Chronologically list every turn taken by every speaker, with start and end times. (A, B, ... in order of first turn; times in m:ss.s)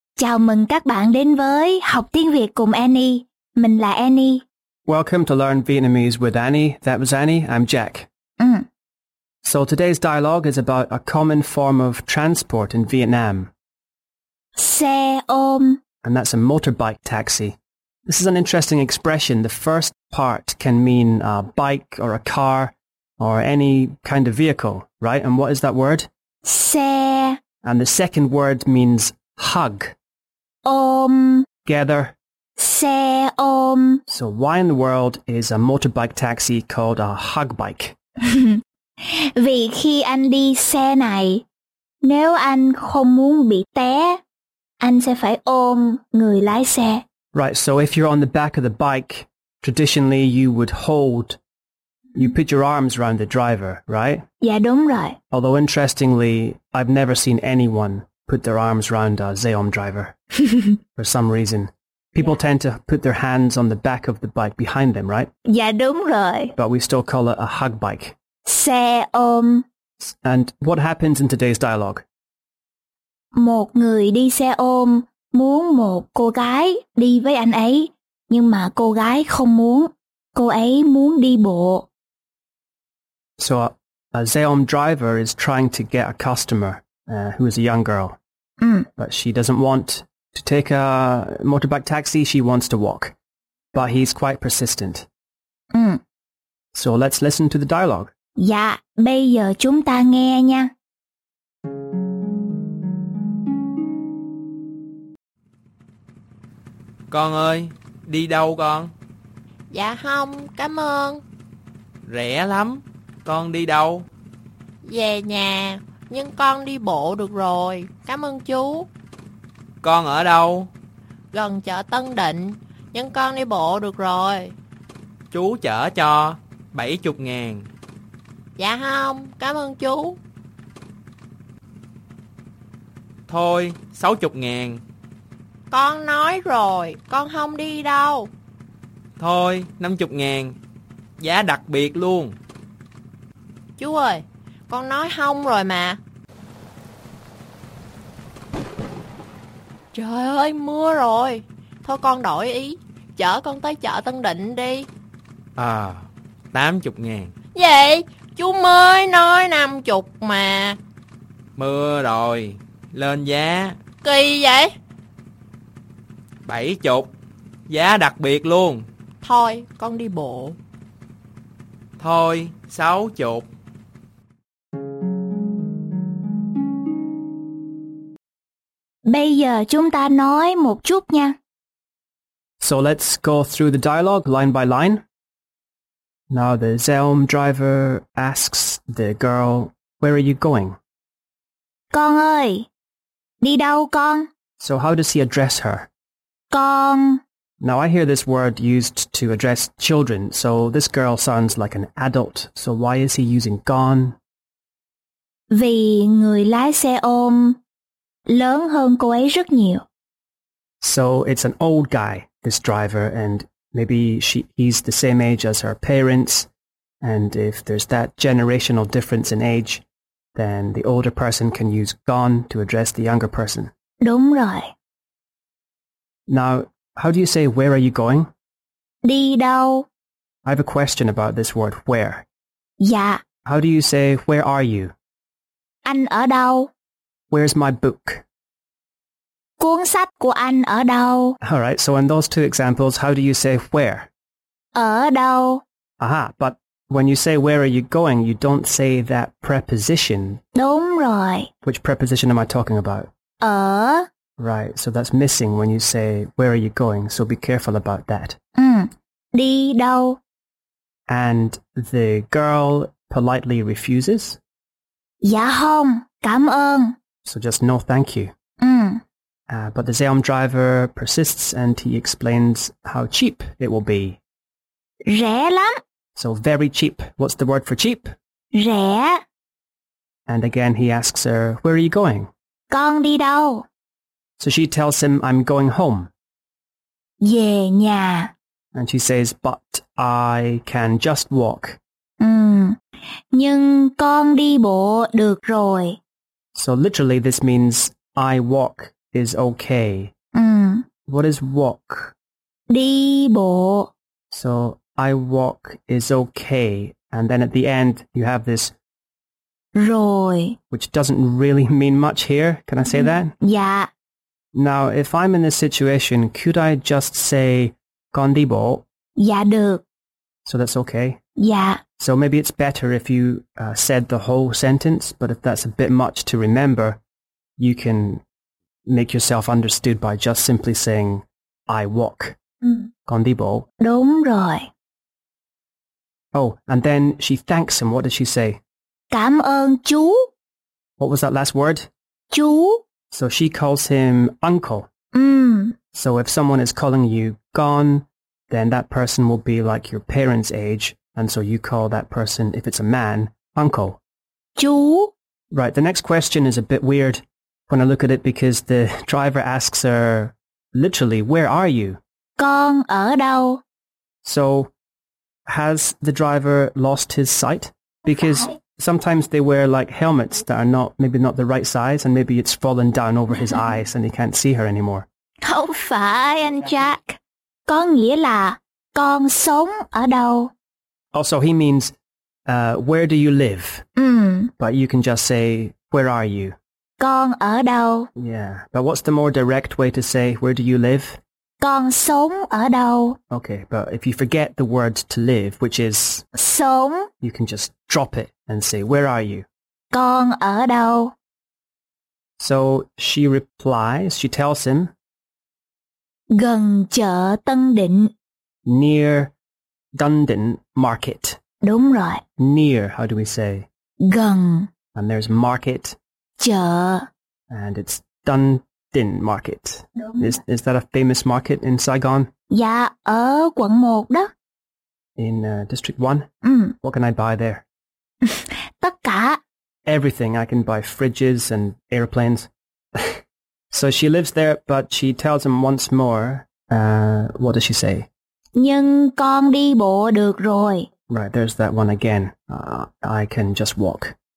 0:00.2-0:04.4 A
0:04.9-0:08.1 B
0:08.4-0:08.7 A
0:09.4-0:13.5 B
0:14.6-0:15.8 A
0:16.0-0:26.1 B
0:26.4-0:27.4 A
0:27.6-0:30.0 B
0:30.6-0:31.5 A
0:31.7-0:32.2 B
0:32.6-0:34.0 A
0:34.1-0:38.0 B
0:38.2-0:41.4 A
0:42.0-0:44.2 A
0:44.8-0:47.0 A
0:47.3-0:51.4 B
0:52.1-0:54.2 B
0:54.4-0:55.2 A
0:55.3-1:00.2 B
1:01.0-1:05.3 B
1:05.5-1:06.5 A
1:06.6-1:08.2 B
1:08.4-1:09.7 A
1:10.0-1:12.0 B
1:13.3-1:21.9 A
1:23.4-1:28.2 B
1:28.6-1:28.9 A
1:29.0-1:33.2 B
1:33.7-1:35.1 B
1:35.7-1:36.0 A
1:36.7-1:38.1 B
1:38.4-1:40.7 A
1:47.1-1:48.9 C
1:49.7-1:51.2 D
1:52.1-1:54.1 C
1:54.8-1:58.9 D
1:59.8-2:00.7 C
2:01.3-2:04.5 D
2:05.3-2:07.7 C
2:08.6-2:10.2 D
2:13.3-2:14.8 C
2:15.7-2:18.3 D
2:19.2-2:20.6 C
2:21.2-2:22.4 C
2:23.8-2:26.0 D
2:29.9-2:34.9 D
2:35.6-2:37.3 C
2:37.6-2:40.8 D
2:41.6-2:43.8 C
2:44.0-2:44.7 D
2:46.4-2:47.1 C
2:47.7-2:48.9 C
2:49.2-2:50.6 D
2:52.0-2:53.5 C
2:59.1-3:01.4 A
3:02.6-3:05.0 B
3:06.3-3:10.8 B
3:11.9-3:12.7 A
3:13.4-3:14.3 A
3:14.6-3:15.9 B
3:16.5-3:17.2 A
3:17.6-3:24.2 B
3:25.5-3:27.6 A
3:28.3-3:29.8 A
3:30.8-3:36.5 B
3:37.0-3:39.8 B
3:40.4-3:43.7 B
3:44.0-3:44.7 A
3:46.3-3:48.3 B
3:49.0-3:49.9 A
3:50.4-3:52.3 B
3:52.8-3:53.2 A
3:53.4-3:54.9 B
3:55.8-3:56.7 A
3:57.3-3:58.2 B
3:59.6-4:01.4 A
4:01.4-4:04.1 B
4:04.8-4:05.6 A
4:06.0-4:10.4 B
4:10.6-4:11.5 A
4:11.6-4:13.1 B
4:13.4-4:14.1 A
4:14.4-4:18.4 B
4:18.6-4:20.2 A
4:21.1-4:24.4 B
4:25.2-4:27.0 A
4:27.2-4:28.3 B
4:28.6-4:29.0 A
4:29.5-4:34.2 B
4:35.1-4:35.8 A
4:36.2-4:38.1 B
4:38.5-4:39.2 A
4:40.3-4:42.3 B
4:42.7-4:43.7 A
4:44.4-4:46.1 B
4:47.2-4:48.3 A
4:48.7-4:51.8 B
4:52.2-4:52.8 A
4:53.3-4:56.0 A
4:56.6-5:00.1 B
5:00.4-5:00.9 A
5:01.1-5:02.2 B
5:02.7-5:03.9 A
5:04.3-5:08.7 B
5:09.8-5:10.6 A
5:10.7-5:13.4 B
5:13.4-5:13.9 A
5:14.5-5:18.8 B
5:19.2-5:19.8 A
5:20.5-5:21.2 B
5:21.4-5:21.8 A
5:22.0-5:27.0 B
5:27.6-5:28.2 B
5:28.9-5:32.4 B
5:33.1-5:33.7 B
5:33.8-5:34.7 A
5:36.3-5:38.6 B
5:39.1-5:40.3 A
5:41.0-5:41.9 B
5:42.3-5:42.8 A
5:43.1-5:44.9 B
5:45.1-5:45.8 A
5:45.9-5:54.0 B
5:54.6-5:55.1 A
5:55.5-6:02.0 B
6:02.4-6:03.6 A
6:04.2-6:04.7 B
6:05.5-6:15.1 B
6:08.2-6:08.5 A
6:15.4-6:20.5 A
6:21.1-6:21.9 B
6:22.5-6:23.8 B
6:24.0-6:24.5 A
6:24.6-6:26.6 B
6:27.0-6:28.1 A
6:28.2-6:31.2 B
6:31.6-6:33.2 A
6:33.3-6:36.3 B
6:36.4-6:37.1 A
6:37.2-6:39.5 B
6:39.9-6:41.1 A
6:42.4-6:44.9 B
6:46.3-6:48.1 A
6:48.7-6:49.3 B
6:50.0-6:51.4 B
6:51.6-6:52.2 A
6:52.4-6:53.7 B
6:54.0-6:54.7 A
6:54.9-6:56.0 B
6:56.4-6:57.1 A
6:57.5-7:02.3 B
7:02.5-7:04.3 A
7:05.2-7:06.3 B
7:06.4-7:06.8 A
7:06.8-7:07.6 B
7:08.2-7:09.4 A
7:09.9-7:13.2 B
7:13.7-7:18.1 B
7:18.6-7:20.9 A
7:21.1-7:24.2 B